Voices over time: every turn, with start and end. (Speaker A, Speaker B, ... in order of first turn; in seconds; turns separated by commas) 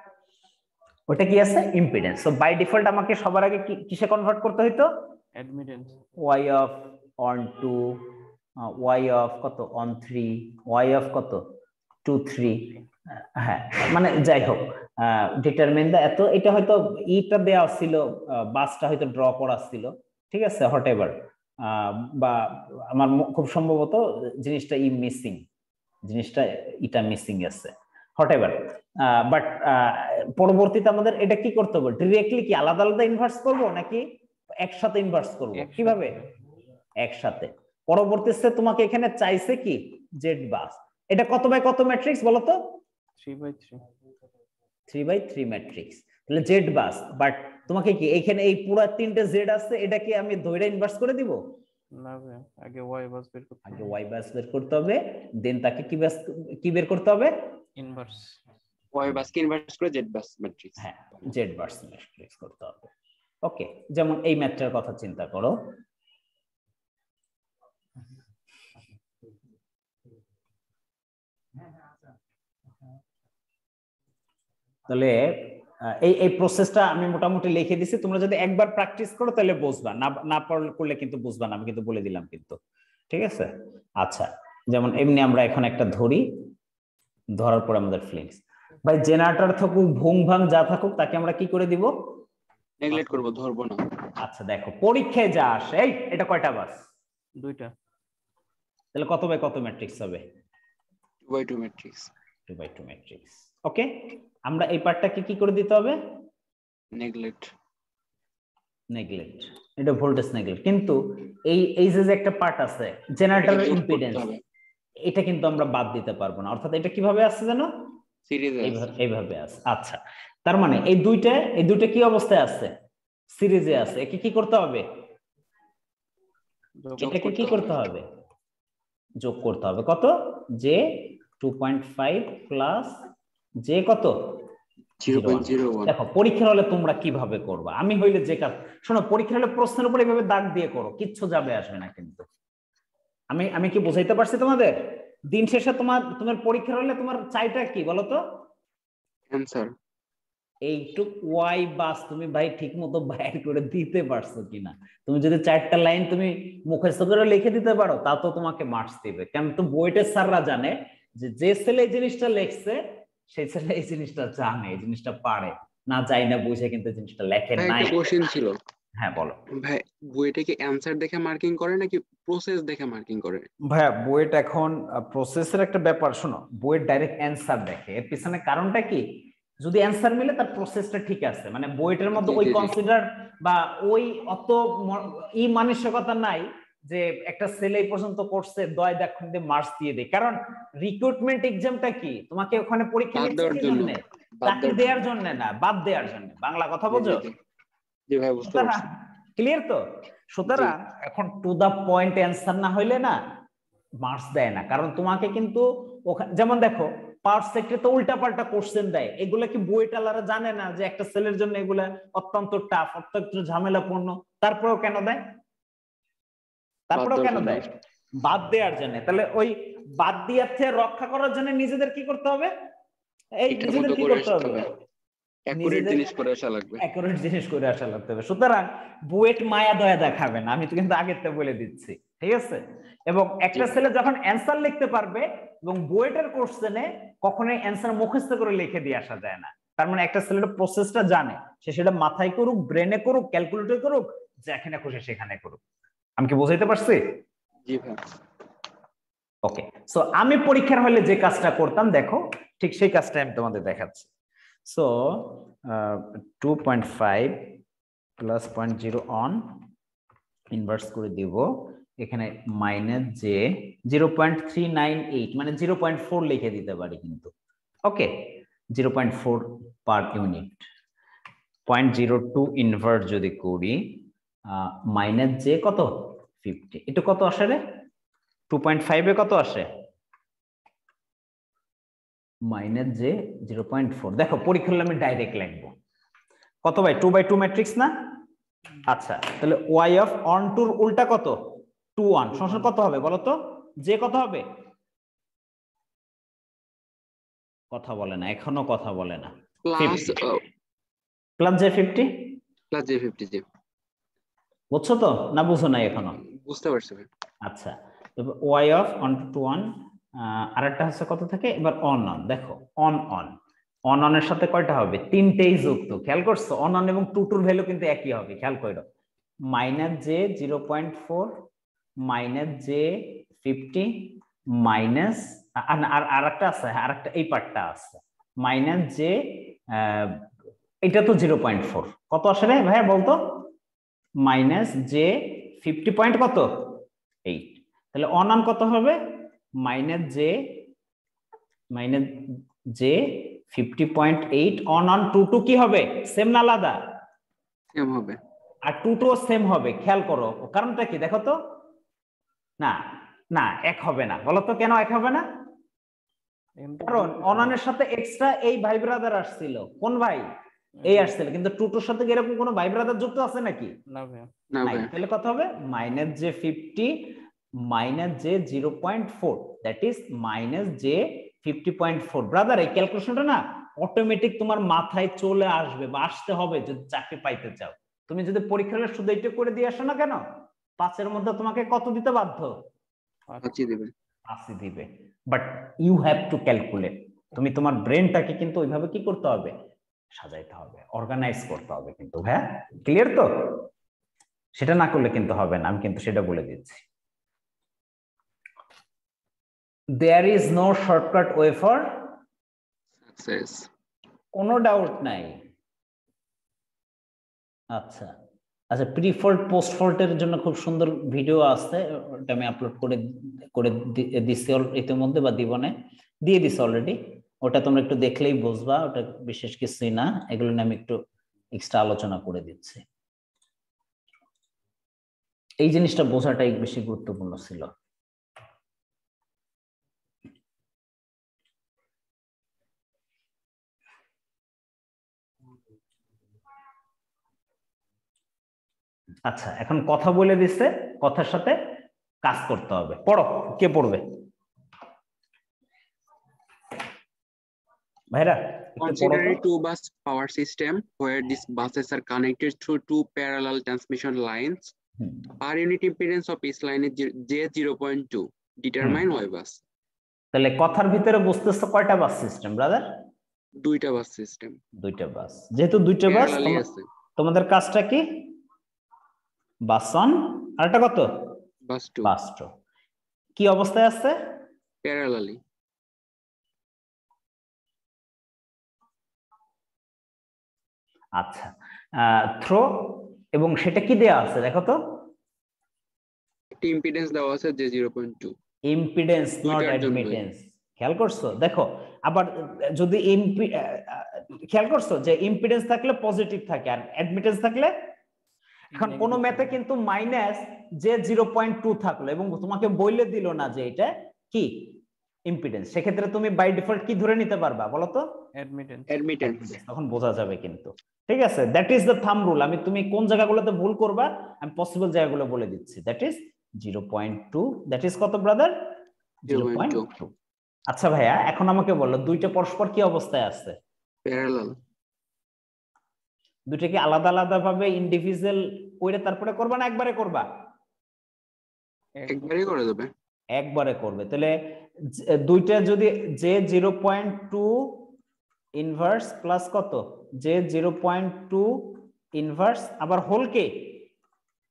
Speaker A: 1.1-4.9, Speaker B: 5.3-6.0, Speaker A: 6.2-11.4, Speaker A: 12.0-12.7, Speaker A: 13.4-25.4, Speaker A: 26.1-34.0, Speaker A: 34.6-36.2, Speaker B: 35.6-36.3, Speaker A: 37.0-42.6, Speaker B: 43.2-43.8, Speaker A: 44.9-51.4, Speaker B: 52.0-53.9, Speaker A: 53.6-57.3, Speaker B: 57.8-58.4, Speaker C: 58.9-60.8, Speaker A: 60.8-62.9, Speaker A: 63.4-65.6, Speaker A: 74.9-82.6, Speaker A: 83.1-83.5, Speaker A: 84.0-86.2, Speaker A: 87.4-91.9, Speaker C: 92.8-93.9, Speaker A: 94.2-96.8, Speaker B: 97.4-97.7, Speaker A: 98.9-100.2, Speaker C: 101.3-102.1, Speaker A: 102.5-106.0, Speaker C: 106.9-107.5, Speaker A: 108.9-114.2, Speaker C: 113.4-114.4, Speaker A: 115.1-117.7, Speaker C: 118.3-118.9, Speaker A: 118.6-122.7, Speaker A: 123.3-124.8, Speaker B: 126.8-127.5, Speaker A: 127.0-128.0, Speaker C: 127.0-127.7, Speaker A: 129.2-133.0, Speaker A: 133.6-134.2, Speaker C: 135.0-135.9, Speaker A: 135.1-142.2, Speaker A: 143.3-144.7, Speaker A: 145.3-148.2, Speaker C: 149.3-149.7, Speaker A: 150.7-162.8, Speaker A: 163.3-168.1, Speaker C: 167.6-168.6, Speaker A: 169.0-169.4, Speaker C: 169.5-173.5, Speaker A: 173.7-179.0, Speaker A: 179.6-197.2, Speaker C: 182.2-182.7, Speaker C: 193.1-195.0, Speaker C: 196.9-197.3, Speaker C: 198.1-198.9, Speaker A: 198.4-203.2, Speaker A: 204.0-215.2, Speaker A: 216.9-217.7, Speaker C: 216.9-217.7, Speaker A: 218.2-222.5, Speaker A: 223.4-224.6, Speaker C: 223.5-224.7, Speaker C: 225.5-226.8, Speaker A: 225.5-226.0, Speaker A: 226.8-245.6, Speaker A: 246.2-247.2, Speaker C: 247.7-248.0, Speaker A: 249.4-254.1, Speaker A: 254.7-257.5, Speaker A: 258.2-259.6, Speaker A: 260.5-267.3, Speaker A: 267.9-270.6, Speaker A: 271.7-273.8, Speaker A: 274.5-275.9, Speaker A: 276.4-277.6, Speaker A: 278.5-279.7, Speaker A: 282.5-285.7, Speaker A: 286.6-287.9, Speaker A: 288.9-291.4, Speaker A: 292.0-294.4, Speaker A: 297.7-300.1, Speaker C: 299.6-300.4, Speaker A: 301.4-302.1, Speaker C: 302.7-303.4, Speaker A: 304.7-306.2, Speaker C: 306.2-307.1, Speaker A: 307.4-313.4, Speaker A: 313.9-318.8, Speaker A: 319.5-321.3, Speaker A: 322.0-330.2, Speaker A: 330.8-333.2, Speaker A: 334.2-336.6, Speaker A: 337.3-339.0, Speaker A: 339.6-340.3, Speaker A: 341.7-342.1, Speaker A: 342.7-346.8, Speaker C: 347.7-348.2, Speaker A: 348.6-351.4, Speaker A: 353.3-355.2, Speaker B: 356.6-357.5, Speaker A: 356.8-360.2, Speaker B: 360.8-361.1, Speaker A: 360.9-363.7, Speaker B: 363.9-364.3, Speaker C: 364.5-364.9, Speaker A: 364.6-380.2, Speaker A: 380.8-382.5, Speaker C: 383.4-383.9, Speaker A: 384.3-389.5, Speaker A: 390.1-393.6, Speaker A: 394.6-396.8, Speaker A: 400.0-402.1, Speaker C: 403.1-403.7, Speaker A: 404.3-405.4, Speaker A: 407.7-408.1, Speaker A: 408.7-413.0, Speaker A: 413.5-415.7, Speaker A: 416.2-421.0, Speaker A: 421.6-422.8, Speaker A: 425.6-427.7, Speaker A: 439.3-441.6, Speaker A: 442.2-444.0, Speaker A: 448.1-449.4, Speaker C: 448.8-454.7, Speaker C: 455.4-459.6, Speaker A: 460.3-462.8, Speaker C: 463.6-464.6, Speaker A: 464.8-466.6, Speaker C: 466.1-466.9, Speaker A: 467.2-468.2, Speaker A: 469.7-471.3, Speaker C: 471.7-472.1, Speaker A: 472.0-472.5, Speaker A: 473.4-474.1, Speaker C: 474.8-475.4, Speaker A: 481.2-484.8, Speaker C: 486.6-488.3, Speaker A: 488.7-497.7, Speaker C: 489.4-490.2, Speaker B: 498.7-499.6, Speaker A: 498.7-504.5, Speaker A: 505.3-508.1, Speaker B: 508.4-508.9, Speaker C: 508.9-509.6, Speaker A: 509.2-518.5, Speaker A: 519.3-520.1, Speaker C: 519.3-519.9, Speaker A: 520.7-523.5, Speaker C: 524.0-524.5, Speaker A: 526.5-530.2, Speaker B: 532.0-532.3, Speaker C: 532.1-532.9, Speaker A: 533.4-534.3, Speaker A: 534.9-537.8, Speaker A: 538.6-543.8